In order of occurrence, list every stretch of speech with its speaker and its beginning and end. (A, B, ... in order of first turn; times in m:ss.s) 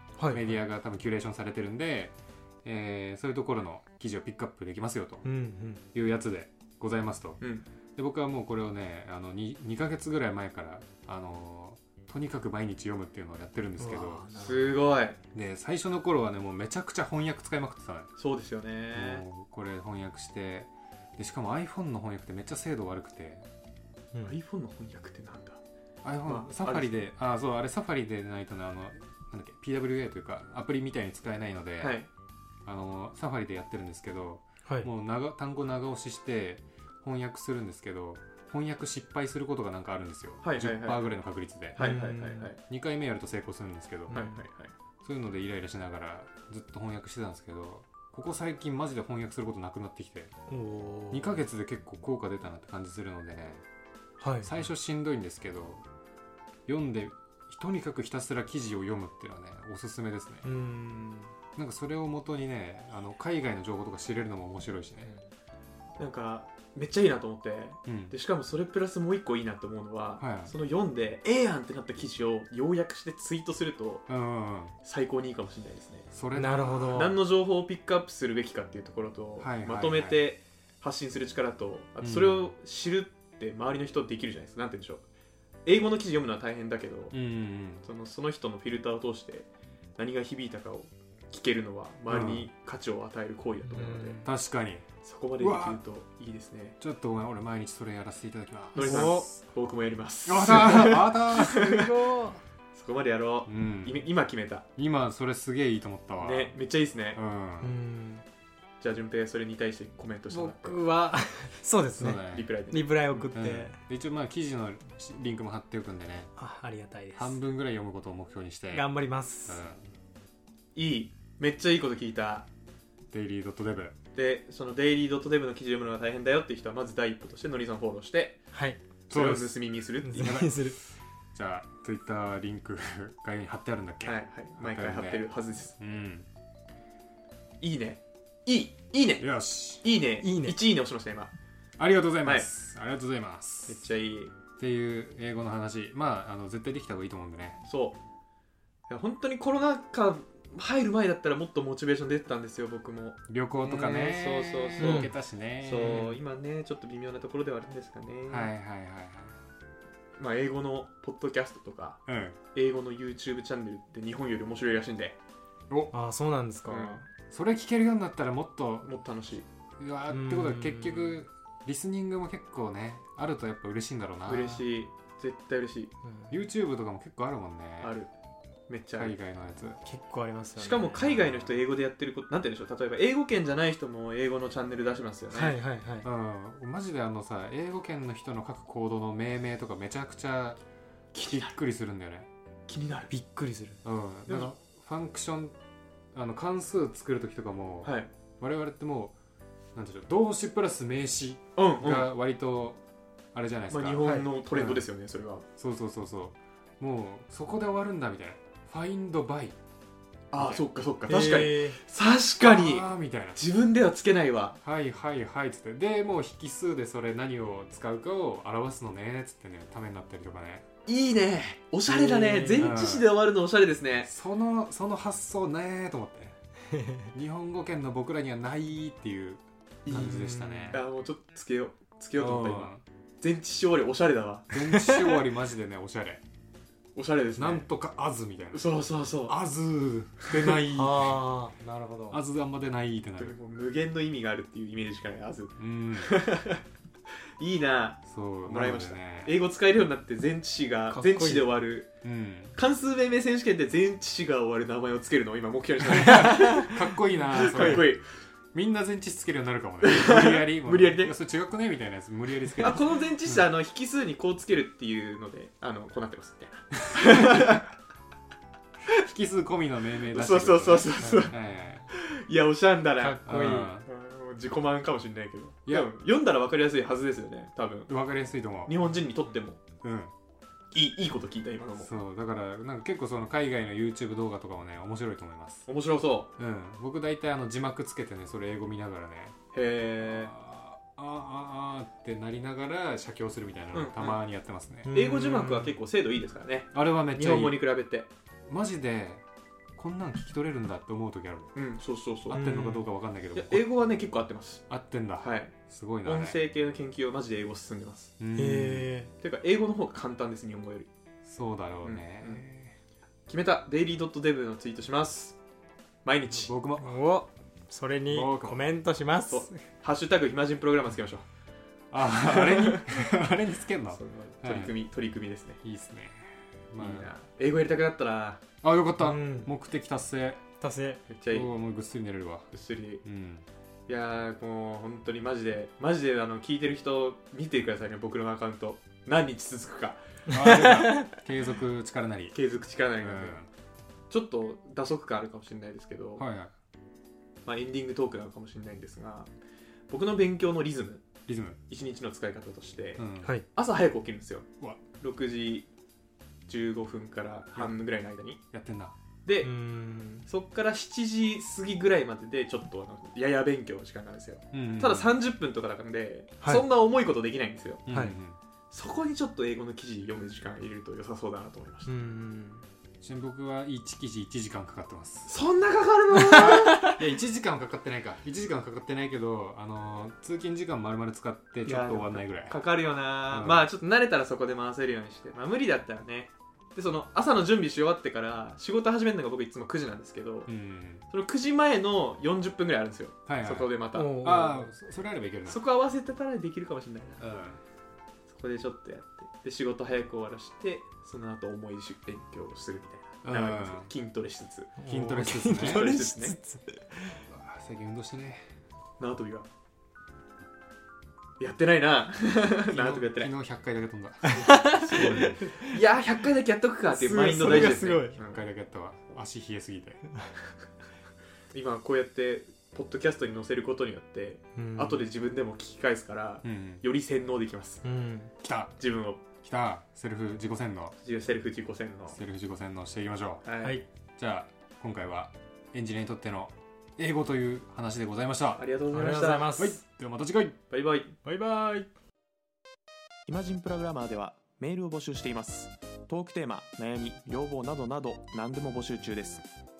0:00.2-0:00.5 A
0:00.3-0:05.2 B
0:05.2-0:05.8 A
0:05.9-0:07.4 B
0:07.4-0:07.6 C
0:08.0-0:14.3 B
0:13.8-0:14.8 A
0:14.4-0:15.2 C
0:15.3-0:18.1 B
0:18.2-0:19.2 C
0:18.9-0:23.5 B
0:24.1-0:24.4 A
0:24.2-0:25.6 C
0:26.0-0:32.0 B
0:26.2-0:27.0 C
0:31.8-0:32.1 C
0:32.6-0:44.2 B
0:40.4-0:41.1 C
0:41.8-0:42.6 C
0:41.8-0:42.5 A
0:44.1-0:44.4 A
0:44.1-0:44.7 C
0:45.0-0:50.3 B
0:50.5-0:51.4 A
0:51.1-0:53.6 B
0:54.2-0:54.5 A
0:54.4-0:55.8 B
0:56.6-1:00.5 B
1:00.4-1:01.3 A
1:01.6-1:05.1 B
1:06.0-1:14.0 C
1:07.8-1:08.1 B
1:10.2-1:10.5 B
1:14.1-1:14.7 B
1:14.8-1:16.1 C
1:16.1-1:17.1 B
1:16.3-1:17.2 A
1:16.9-1:25.0 C
1:19.4-1:20.2 B
1:22.0-1:22.4 B
1:25.6-1:27.2 C
1:27.1-1:27.9 B
1:27.8-1:34.2 C
1:32.1-1:32.5 B
1:33.7-1:34.3 A
1:34.2-1:34.9 B
1:35.0-1:36.8 C
1:35.4-1:35.8 B
1:36.8-1:39.3 B
1:38.7-1:39.3 A
1:38.7-1:41.9 C
1:40.2-1:41.7 B
1:41.3-1:42.4 A
1:42.7-1:44.6 C
1:43.4-1:44.0 B
1:44.8-1:46.6 B
1:46.2-1:47.2 C
1:47.1-1:47.7 B
1:47.6-1:48.2 A
1:48.8-1:50.8 C
1:50.3-1:53.8 A
1:52.0-1:52.5 B
1:52.3-1:52.9 C
1:53.1-1:56.3 B
1:56.4-1:57.4 A
1:57.1-1:58.9 B
1:58.7-1:59.6 A
1:59.4-1:59.8 B
2:00.7-2:02.5 C
2:03.1-2:04.0 B
2:04.1-2:08.4 C
2:08.5-2:08.8 A
2:09.1-2:09.6 B
2:09.1-2:10.4 C
2:10.0-2:10.8 A
2:10.2-2:10.7 B
2:11.3-2:15.2 B
2:14.0-2:15.7 C
2:15.8-2:16.3 B
2:17.6-2:19.3 C
2:19.2-2:19.8 B
2:19.8-2:21.3 C
2:20.2-2:20.6 A
2:21.8-2:23.9 B
2:22.2-2:22.5 C
2:23.7-2:24.3 C
2:24.6-2:27.6 B
2:27.6-2:28.0 C
2:28.9-2:38.5 C
2:33.3-2:36.2 B
2:34.8-2:35.1 A
2:35.8-2:36.0 A
2:38.3-2:39.4 B
2:40.2-2:42.0 C
2:42.1-2:42.4 B
2:42.5-2:45.2 C
2:45.7-2:45.9 B
2:45.9-2:47.1 A
2:46.7-2:47.0 C
2:47.3-2:48.9 B
2:48.8-2:49.5 C
2:49.8-2:54.6 B
2:50.1-2:51.2 A
2:54.2-2:55.9 C
2:56.0-2:56.3 A
2:56.3-2:57.9 B
2:57.8-2:58.1 C
2:58.7-2:59.1 C
2:59.0-2:59.8 B
2:59.8-3:00.9 A
3:00.6-3:05.5 C
3:01.0-3:01.5 B
3:05.3-3:06.1 A
3:06.0-3:10.6 B
3:11.1-3:12.3 B
3:11.1-3:11.5 C
3:12.7-3:13.1 C
3:13.1-3:13.8 A
3:13.8-3:15.5 B
3:14.3-3:14.5 C
3:16.1-3:19.1 B
3:17.8-3:18.1 C
3:19.7-3:22.8 B
3:21.6-3:22.1 C
3:23.3-3:24.8 B
3:23.7-3:25.4 C
3:25.6-3:29.5 B
3:30.3-3:34.6 C
3:30.3-3:30.6 B
3:31.1-3:31.8 A
3:32.4-3:33.4 B
3:34.6-3:40.6 B
3:40.8-3:44.1 C
3:41.9-3:43.1 B
3:42.2-3:42.6 A
3:44.0-3:46.4 B
3:46.7-3:47.0 A
3:47.1-3:50.8 B
3:49.8-3:54.5 C
3:49.9-3:50.8 A
3:52.2-3:52.8 B
3:54.5-3:56.2 B
3:54.7-3:55.2 A
3:56.9-3:57.7 C
3:57.4-3:58.7 B
3:58.5-3:59.4 C
3:59.2-4:01.2 B
4:00.2-4:00.6 C
4:00.6-4:02.2 A
4:02.1-4:03.4 B
4:03.2-4:06.6 C
4:05.6-4:06.2 B
4:07.4-4:11.9 C
4:08.0-4:09.4 B
4:10.9-4:11.5 A
4:12.0-4:12.6 B
4:12.5-4:18.0 C
4:15.8-4:18.0 B
4:16.3-4:16.6 A
4:17.5-4:17.8 A
4:18.5-4:23.5 B
4:19.8-4:21.1 C
4:22.6-4:27.7 C
4:26.8-4:27.5 B
4:29.0-4:31.9 B
4:30.1-4:31.4 C
4:31.9-4:33.2 C
4:33.0-4:33.7 A
4:33.2-4:33.9 B
4:33.8-4:37.9 C
4:37.9-4:38.8 B
4:38.6-4:39.6 C
4:39.8-4:40.1 B
4:40.7-4:41.9 C
4:41.8-4:45.6 B
4:45.6-4:46.3 C
4:46.4-4:49.4 B
4:49.5-4:50.3 C
4:50.0-4:54.9 B
4:53.7-4:54.2 C
4:54.8-4:55.8 A
4:54.9-4:58.1 C
4:56.7-4:57.6 B
4:58.5-4:59.2 B
4:59.7-5:01.5 B
5:01.5-5:02.5 C
5:02.3-5:03.7 B
5:02.3-5:02.8 A
5:03.3-5:04.6 C
5:04.7-5:06.4 B
5:05.2-5:08.1 C
5:08.2-5:08.9 B
5:08.4-5:09.1 A
5:09.2-5:10.9 C
5:11.2-5:12.7 B
5:11.8-5:12.4 C
5:13.3-5:15.4 C
5:16.0-5:16.5 C
5:16.3-5:17.1 B
5:16.8-5:19.6 A
5:18.1-5:18.6 B
5:19.2-5:21.2 C
5:21.9-5:24.7 B
5:22.2-5:23.0 C
5:23.9-5:25.6 C
5:25.6-5:27.1 B
5:26.8-5:28.4 C
5:28.6-5:30.4 B
5:29.0-5:29.5 A
5:30.6-5:31.0 A
5:31.1-5:31.5 C
5:31.3-5:32.5 B
5:32.5-5:33.0 C
5:33.0-5:33.4 B
5:33.9-5:40.0 C
5:40.3-5:42.4 B
5:40.3-5:41.1 A
5:42.3-5:43.4 C
5:43.0-5:43.5 B
5:44.1-5:46.2 C
5:46.2-5:46.5 B
5:47.4-5:49.3 C
5:49.9-5:51.0 C
5:51.2-5:51.6 B
5:51.7-5:54.5 C
5:53.0-5:53.3 B
5:55.0-5:55.7 C
5:56.5-5:58.4 C
5:58.5-5:59.0 B
5:59.2-5:59.5 C
5:59.4-6:00.3 A
6:00.2-6:07.9 C
6:04.5-6:05.2 B
6:07.8-6:08.4 B
6:07.9-6:08.2 A
6:08.7-6:11.9 C
6:11.8-6:12.6 A
6:13.0-6:15.3 B
6:15.2-6:16.9 C
6:16.3-6:22.6 B
6:16.4-6:16.9 A
6:21.6-6:30.5 C
6:23.3-6:23.7 B
6:30.4-6:31.0 B
6:31.1-6:34.1 C
6:33.2-6:35.6 B
6:33.9-6:34.7 A
6:35.5-6:37.2 C
6:37.2-6:37.6 B
6:38.3-6:44.8 C
6:43.2-6:43.9 B
6:44.8-6:47.2 A
6:44.8-6:45.9 B
6:45.4-6:46.4 C
6:47.3-6:48.4 B
6:49.0-6:49.5 C
6:51.4-6:53.3 C
6:52.7-6:55.5 B
6:54.2-6:55.8 A
6:54.6-6:58.4 C
6:56.9-6:58.2 A
6:57.2-7:00.0 B
7:01.5-7:07.8 C
7:04.5-7:05.0 A
7:06.4-7:06.8 B
7:07.8-7:08.3 A
7:08.4-7:08.8 B
7:08.8-7:09.2 C
7:09.4-7:10.9 B
7:11.0-7:12.2 C
7:12.1-7:13.4 B
7:13.4-7:13.8 C
7:14.2-7:18.6 B
7:18.6-7:19.6 C
7:18.9-7:19.8 A
7:19.5-7:20.6 B
7:20.7-7:21.2 C
7:21.2-7:21.9 A
7:23.3-7:29.4 D